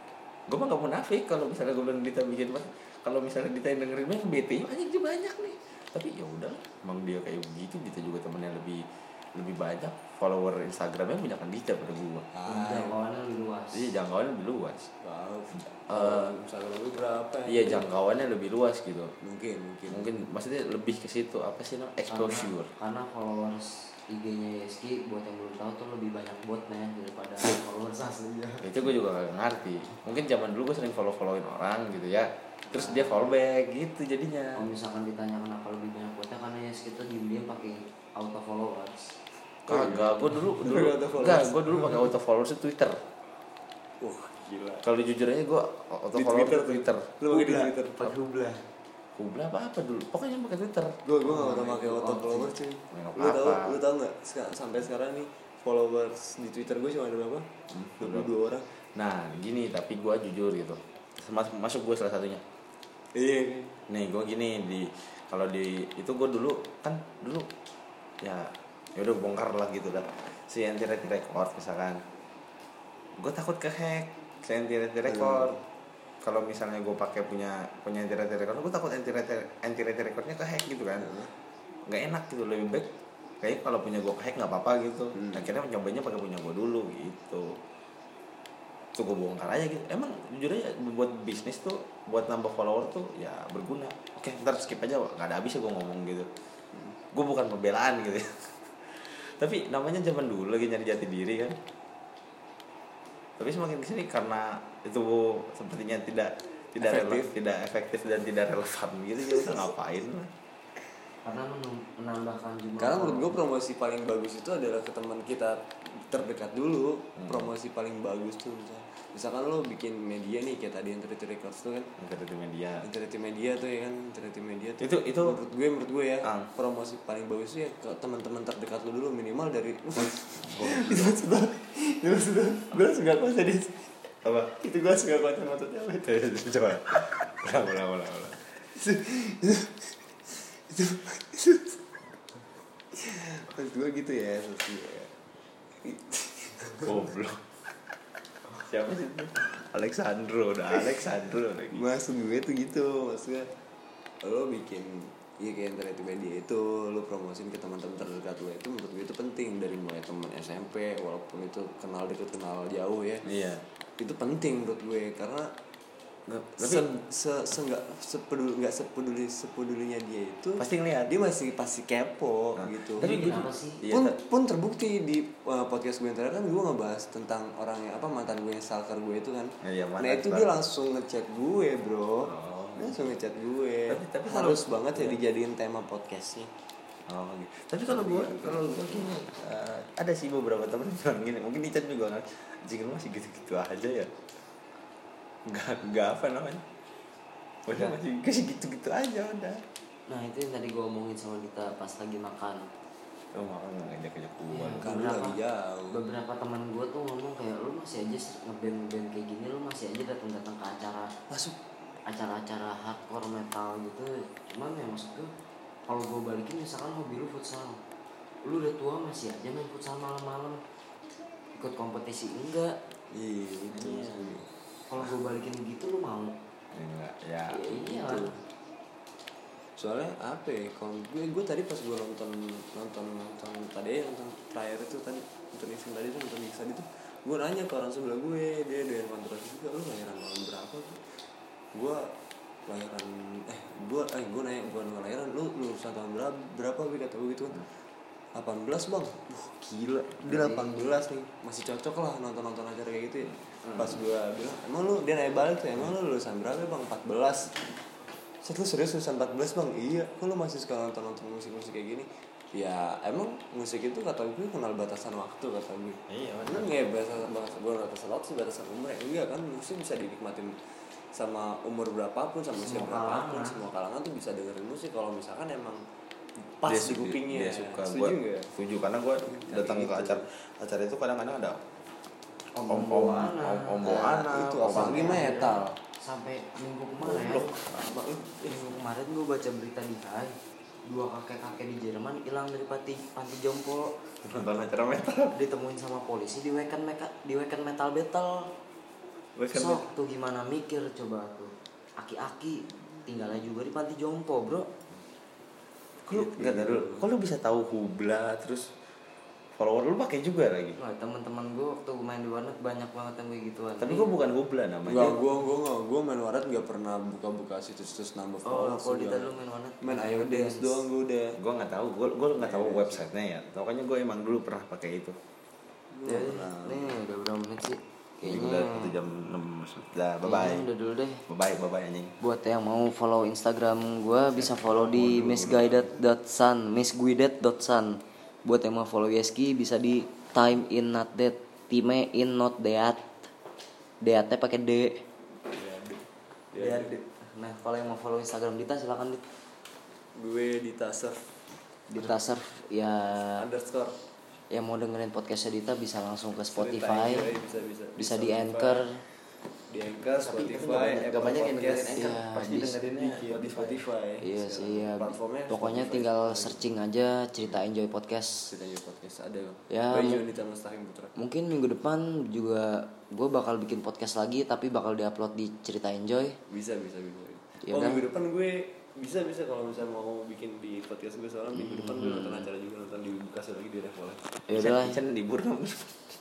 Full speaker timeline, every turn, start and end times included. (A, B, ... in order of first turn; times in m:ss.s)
0:00.5-0:08.8 A
0:09.4-0:12.3 A
0:12.3-0:13.0 B
0:12.5-0:13.9 C
0:13.7-0:14.9 A
0:15.0-0:17.9 B
0:15.9-0:16.3 A
0:17.5-0:19.1 A
0:19.2-0:20.1 B
0:19.9-0:22.7 A
0:22.1-0:28.7 C
0:28.6-0:34.6 A
0:32.7-0:33.2 C
0:34.6-0:39.1 C
0:39.7-0:42.1 B
0:39.7-0:43.0 A
0:44.0-0:44.8 B
0:44.8-0:47.2 A
0:46.2-0:48.1 B
0:47.3-0:48.6 C
0:49.2-0:51.0 A
0:51.1-0:57.5 B
0:51.2-0:52.5 C
0:52.9-0:53.8 A
0:57.7-0:58.3 A
0:58.0-0:58.6 B
0:59.0-1:02.4 A
1:03.2-1:03.8 B
1:03.9-1:07.5 A
1:08.2-1:12.0 A
1:13.2-1:15.6 A
1:15.1-1:15.6 B
1:16.2-1:21.1 A
1:21.0-1:21.3 B
1:21.9-1:27.5 A
1:25.2-1:25.5 B
1:29.0-1:36.3 A
1:37.1-1:41.6 A
1:43.4-1:50.3 A
1:46.8-1:47.3 B
1:51.3-1:53.3 C
1:52.8-2:01.9 B
1:57.2-1:57.5 A
2:02.0-2:02.9 A
2:02.8-2:14.0 B
2:04.8-2:05.4 A
2:06.2-2:06.5 A
2:10.0-2:11.2 A
2:14.2-2:14.5 A
2:14.6-2:16.2 B
2:16.0-2:18.4 A
2:18.7-2:21.8 B
2:22.9-2:25.1 B
2:25.8-2:27.1 B
2:26.8-2:27.4 A
2:28.5-2:31.8 A
2:31.7-2:33.5 B
2:34.2-2:43.2 B
2:43.2-2:43.6 A
2:44.0-2:45.5 B
2:46.3-2:46.9 A
2:46.6-3:06.5 B
2:50.6-2:51.1 A
2:52.6-2:54.2 A
2:53.0-2:53.8 C
2:59.6-3:00.6 A
3:02.2-3:03.0 A
3:03.9-3:05.2 A
3:07.1-3:14.1 A
3:07.9-3:08.7 B
3:15.5-3:16.6 A
3:17.7-3:19.6 A
3:20.1-3:22.6 C
3:23.3-3:24.9 A
3:24.5-3:25.4 C
3:24.8-3:26.0 B
3:25.9-3:31.1 C
3:31.3-3:31.6 B
3:32.1-3:35.3 C
3:35.9-3:37.8 C
3:38.5-3:40.6 C
3:41.6-3:42.8 C
3:43.1-3:44.5 B
3:43.7-3:44.4 A
3:44.9-3:46.3 C
3:46.7-3:47.6 A
3:47.5-3:48.3 C
3:47.8-3:48.4 B
3:49.8-4:01.0 B
4:01.7-4:02.1 B
4:02.7-4:07.6 B
4:08.4-4:17.6 B
4:10.2-4:10.8 C
4:18.4-4:30.5 B
4:26.1-4:26.8 A
4:31.1-4:35.8 B
4:32.5-4:33.6 C
4:36.6-4:38.5 B
4:36.7-4:41.6 A
4:39.3-4:40.2 B
4:42.6-4:45.2 A
4:42.7-4:43.9 C
4:42.8-4:43.2 B
4:43.8-4:45.7 B
4:44.7-4:53.9 C
4:47.0-4:47.7 A
4:54.2-4:55.4 A
4:55.3-4:58.5 C
4:59.4-4:59.8 A
4:59.5-5:04.7 C
5:06.1-5:08.7 A
5:06.1-5:07.1 B
5:09.6-5:10.8 A
5:10.8-5:14.1 C
5:13.8-5:15.2 A
5:14.9-5:21.4 B
5:18.4-5:20.8 C
5:21.4-5:25.2 A
5:22.4-5:23.1 B
5:25.9-5:27.0 B
5:26.1-5:28.9 C
5:28.2-5:30.7 A
5:30.2-5:31.2 C
5:31.3-5:32.1 A
5:32.2-5:43.2 C
5:34.4-5:36.0 A
5:44.0-5:45.0 C
5:45.5-5:47.0 B
5:46.6-5:49.2 C
5:50.2-5:51.3 B
5:51.9-5:53.4 C
5:53.4-5:54.0 B
5:54.5-5:57.3 C
5:56.5-5:58.9 B
5:58.0-5:59.0 C
5:59.7-6:06.6 B
6:00.1-6:03.8 A
6:01.9-6:02.7 C
6:04.2-6:08.4 C
6:08.5-6:11.2 B
6:09.7-6:10.2 C
6:11.2-6:16.4 C
6:16.5-6:24.4 B
6:17.6-6:18.0 C
6:21.6-6:22.5 C
6:24.5-6:25.0 C
6:24.5-6:26.0 A